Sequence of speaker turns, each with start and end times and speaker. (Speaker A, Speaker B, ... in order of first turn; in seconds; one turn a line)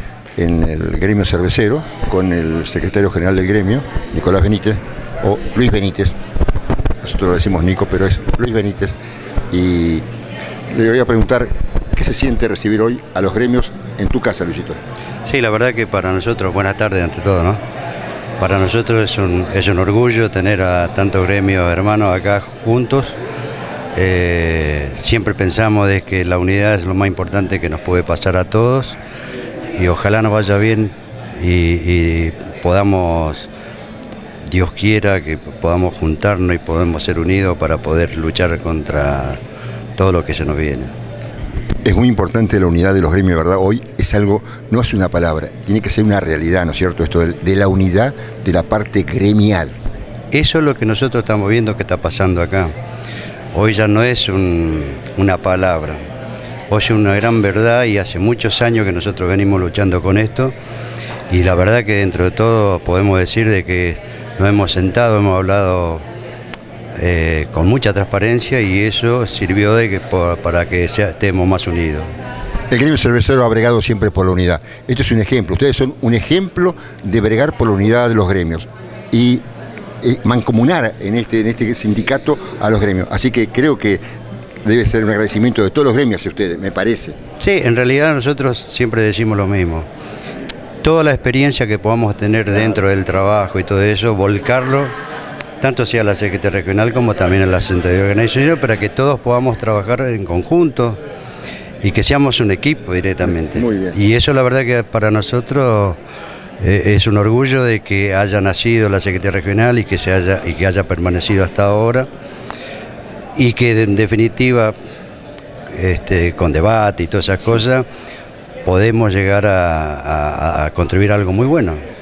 Speaker A: 0.4-6.2
Speaker A: 7.0-8.9
Speaker A: 9.5-10.1
Speaker A: 10.7-14.8
Speaker B: 15.2-17.6
Speaker B: 18.4-23.2
Speaker B: 23.9-29.0
Speaker B: 29.8-33.5
Speaker B: 34.5-39.4
Speaker B: 40.0-40.9
Speaker A: 41.8-49.8
Speaker B: 50.3-52.7
Speaker B: 53.5-56.0
Speaker B: 56.7-60.5
Speaker B: 61.3-66.0
Speaker B: 67.0-72.1
Speaker A: 72.7-79.4
Speaker A: 80.0-84.0
Speaker A: 84.6-87.2
Speaker B: 87.4-89.9
Speaker B: 90.8-94.9
Speaker B: 95.6-101.0
Speaker B: 101.8-106.0
Speaker A: 103.3-104.0
Speaker B: 106.6-112.1
Speaker B: 113.4-114.8
Speaker B: 115.7-117.8
Speaker B: 118.7-121.8